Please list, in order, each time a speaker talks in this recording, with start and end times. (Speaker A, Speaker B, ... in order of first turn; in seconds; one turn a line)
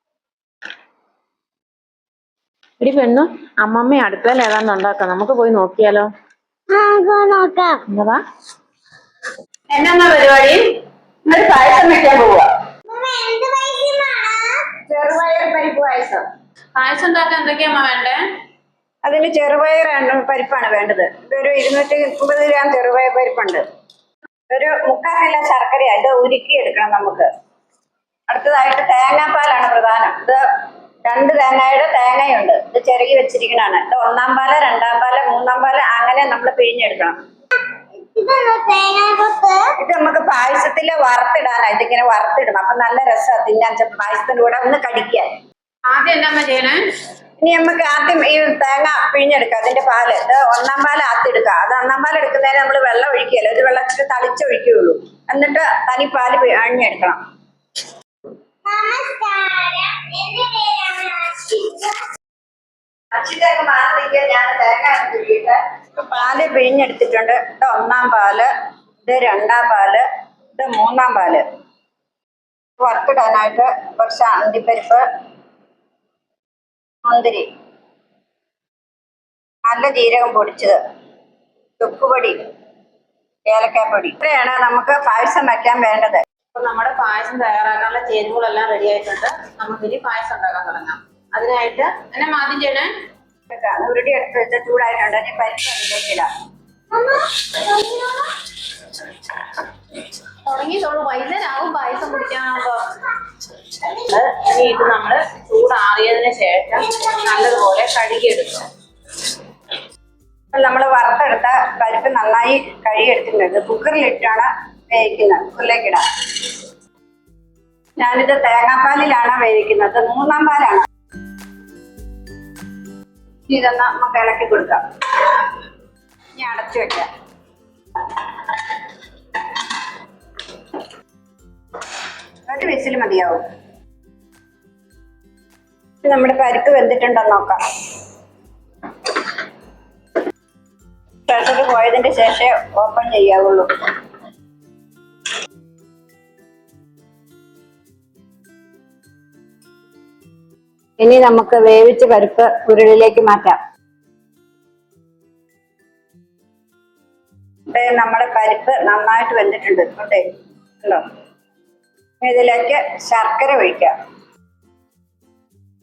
Speaker A: 2.8-6.1
Speaker B: 6.7-7.8
Speaker A: 7.9-8.2
Speaker C: 9.7-12.5
Speaker B: 12.9-14.7
Speaker C: 14.8-16.2
Speaker A: 16.8-18.2
Speaker C: 19.1-23.6
Speaker C: 24.5-27.3
Speaker C: 28.3-30.4
Speaker C: 31.0-37.2
Speaker B: 38.0-39.7
Speaker C: 39.8-45.4
Speaker A: 45.9-46.8
Speaker C: 47.4-57.2
Speaker B: 58.6-62.1
Speaker C: 63.1-68.5
Speaker C: 69.0-71.4
Speaker C: 72.8-75.0
Speaker C: 77.0-77.5
Speaker C: 79.7-80.8
Speaker C: 81.8-82.4
Speaker C: 83.5-86.2
Speaker A: 86.5-92.9
Speaker C: 93.5-96.3
Speaker A: 97.7-98.2
Speaker A: 100.2-103.1
Speaker A: 103.7-108.7
Speaker C: 110.5-116.6
Speaker C: 118.0-120.9
Speaker C: 123.5-125.6
Speaker C: 126.4-127.1
Speaker C: 132.5-133.4
Speaker C: 136.0-137.6
Speaker C: 141.3-143.7
Speaker C: 151.0-153.6
Speaker C: 157.7-160.2
Speaker C: 162.2-163.9